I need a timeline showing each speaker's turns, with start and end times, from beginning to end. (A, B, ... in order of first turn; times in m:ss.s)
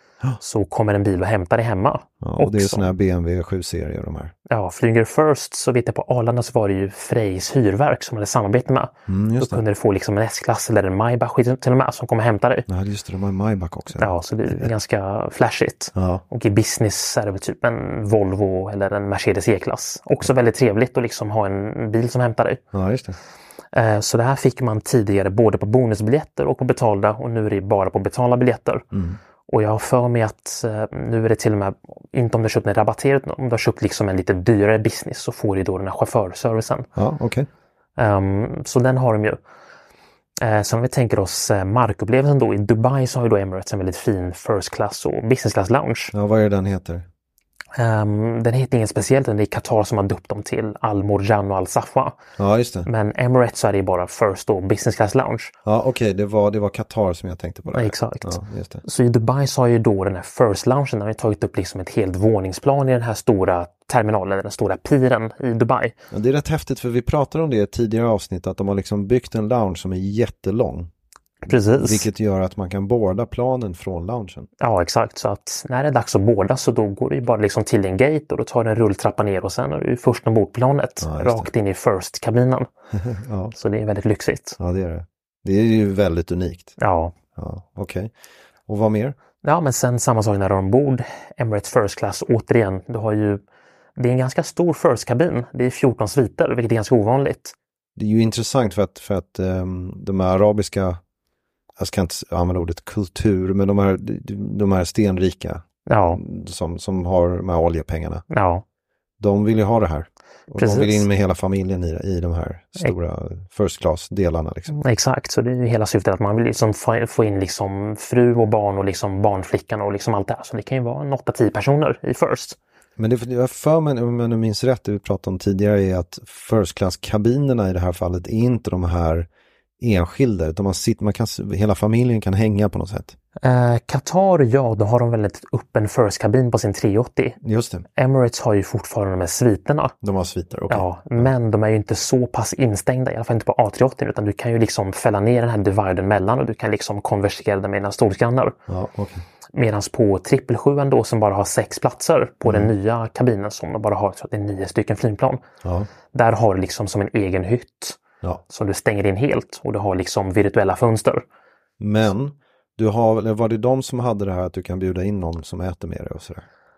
0:00.4-0:02.9 A
0:02.2-0:04.3 B
0:04.5-0:12.7 A
0:09.1-0:09.6 B
0:12.7-0:14.7 B
0:14.0-0:22.6 A
0:16.0-0:16.2 B
0:22.7-0:23.2 B
0:23.7-0:28.8 A
0:28.9-0:29.2 B
0:29.5-0:36.9 A
0:37.0-0:37.5 B
0:38.0-0:39.4 A
0:40.4-0:46.1 A
0:46.1-0:47.1 B
0:47.8-0:52.2 A
0:52.4-0:52.9 B
0:52.9-0:55.5 A
0:55.6-0:58.8 B
0:57.7-1:06.0 A
1:06.1-1:10.9 B
1:11.4-1:12.1 A
1:11.8-1:14.5 B
1:14.6-1:22.7 A
1:21.0-1:21.5 B
1:23.0-1:23.6 B
1:23.6-1:24.6 A
1:24.6-1:26.8 B
1:26.8-1:27.1 A
1:27.4-1:28.1 B
1:28.7-1:29.2 B
1:29.4-1:33.4 A
1:34.0-1:37.6 A
1:38.0-1:41.0 B
1:41.8-1:48.2 B
1:45.9-1:46.2 A
1:48.3-1:48.6 A
1:49.2-1:54.8 B
1:50.6-1:51.1 A
1:54.7-2:02.6 A
2:03.0-2:09.3 B
2:09.8-2:13.2 B
2:13.4-2:17.4 A
2:17.4-2:17.9 B
2:18.0-2:20.0 A
2:20.0-2:21.3 B
2:20.7-2:28.6 A
2:28.7-2:29.2 B
2:29.5-2:35.4 A
2:32.4-2:32.7 B
2:35.6-2:35.9 B
2:36.1-2:41.2 A
2:41.8-2:46.4 B